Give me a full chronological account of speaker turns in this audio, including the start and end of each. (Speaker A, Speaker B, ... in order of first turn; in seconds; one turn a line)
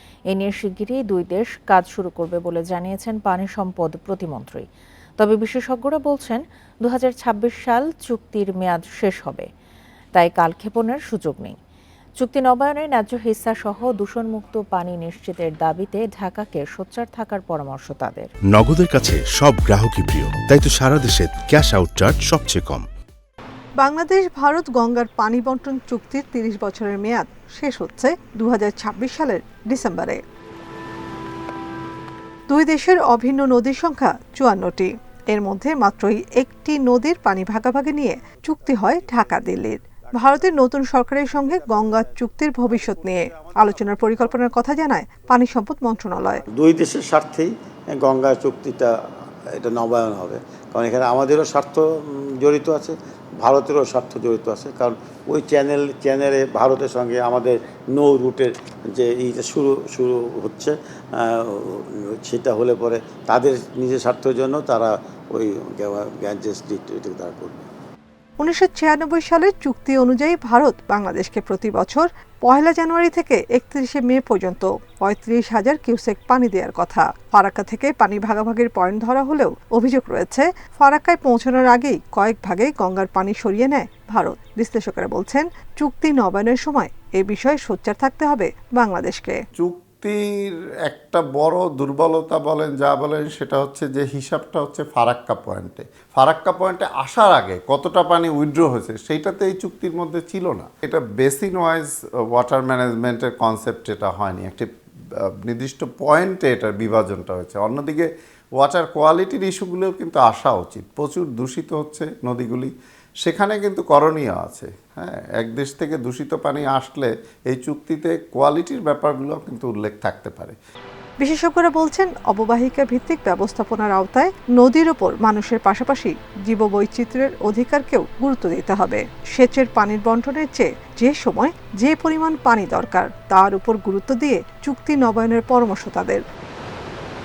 Speaker A: 0.3-4.7
Speaker A: 5.2-9.5
Speaker A: 10.2-11.6
Speaker A: 12.2-18.3
Speaker B: 18.5-22.9
Speaker C: 23.8-30.2
Speaker C: 32.5-46.5
Speaker D: 38.7-40.6
Speaker D: 41.3-44.6
Speaker D: 46.5-48.9
Speaker D: 49.5-67.6
Speaker C: 68.4-89.4
Speaker E: 89.6-112.7
Speaker E: 113.2-120.5
Speaker C: 121.2-136.2